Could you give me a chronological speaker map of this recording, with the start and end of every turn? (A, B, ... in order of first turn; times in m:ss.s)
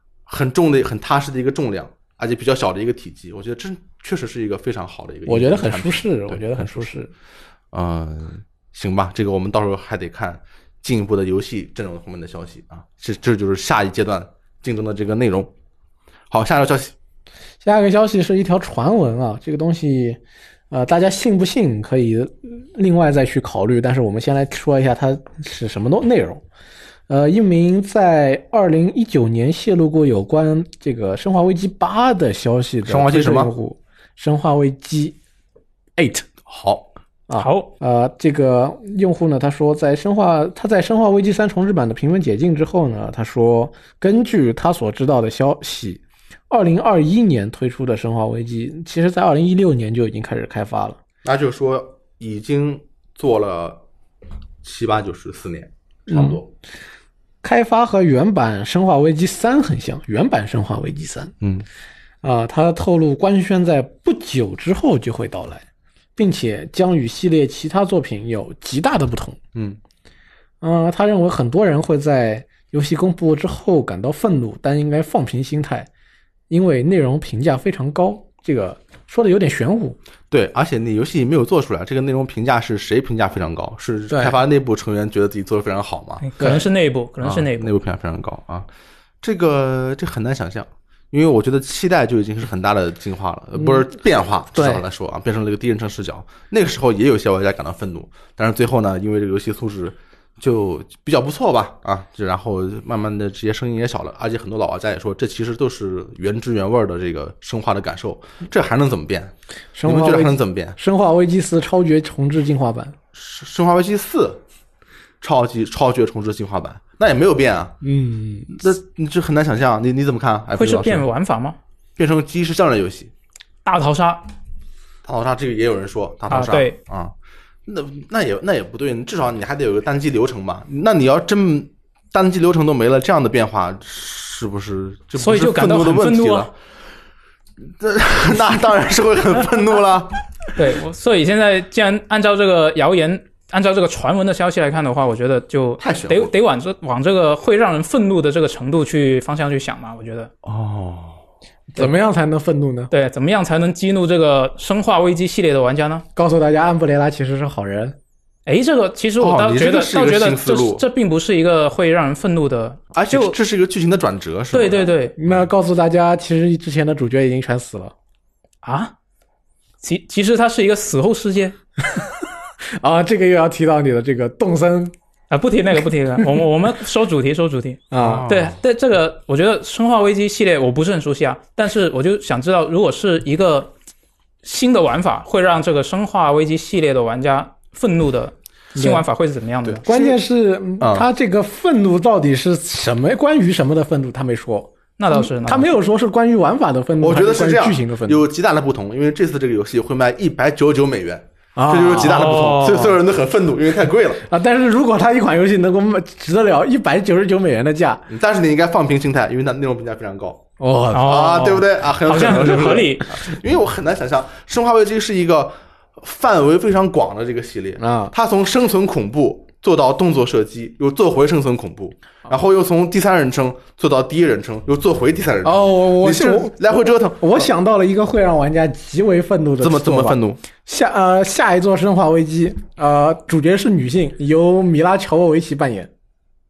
0:00.3-0:06.9 A
0:05.3-0:07.1 B
0:07.7-0:15.5 A
0:16.3-0:16.9 A
0:17.6-0:20.2 B
0:20.7-0:26.4 B
0:27.1-0:35.2 B
0:32.9-0:33.5 A
0:36.0-0:36.3 B
0:36.5-0:36.9 A
0:37.3-0:51.0 B
0:37.4-0:37.7 C
0:51.2-0:53.8 A
0:54.6-0:56.5 A
0:56.1-0:56.4 B
0:57.4-1:01.3 B
1:01.4-1:01.7 A
1:02.2-1:05.6 B
1:06.2-1:09.4 B
1:10.6-1:15.9 B
1:16.5-1:20.0 B
1:20.3-1:26.6 A
1:24.1-1:24.4 B
1:26.2-1:27.7 C
1:27.2-1:28.7 A
1:29.2-1:49.3 A
1:34.6-1:34.8 B
1:49.8-1:53.0 B
1:49.8-1:50.8 A
1:53.1-1:54.4 A
1:55.2-1:57.8 A
1:57.8-1:58.5 B
1:58.5-2:01.1 A
2:00.6-2:01.6 C
2:02.0-2:03.1 A
2:03.6-2:04.3 C
2:05.0-2:07.1 A
2:06.3-2:06.8 C
2:07.7-2:16.5 A
2:15.2-2:16.5 C
2:17.8-2:20.2 A
2:20.5-2:30.3 C
2:25.8-2:26.3 A
2:30.4-2:31.2 A
2:31.7-2:32.9 B
2:32.9-2:36.0 C
2:36.2-2:38.0 B
2:38.5-2:43.4 C
2:39.2-2:40.8 A
2:43.0-2:45.4 A
2:44.5-2:45.2 C
2:45.2-2:47.9 B
2:48.6-2:48.9 C
2:49.8-2:51.6 C
2:52.8-2:54.9 B
2:55.3-3:03.7 C
2:57.9-2:58.3 B
2:58.0-2:58.6 A
3:04.4-3:09.8 C
3:08.8-3:09.0 B
3:09.6-3:10.2 A
3:09.8-3:18.2 B
3:10.8-3:11.1 A
3:15.0-3:15.7 C
3:17.0-3:24.2 A
3:21.6-3:22.4 B
3:22.0-3:23.0 C
3:24.3-3:28.1 B
3:28.1-3:30.4 A
3:30.6-3:31.2 B
3:30.9-3:33.1 C
3:31.0-3:47.5 A
3:37.8-3:38.1 B
3:45.4-3:55.9 B
3:49.6-3:50.4 A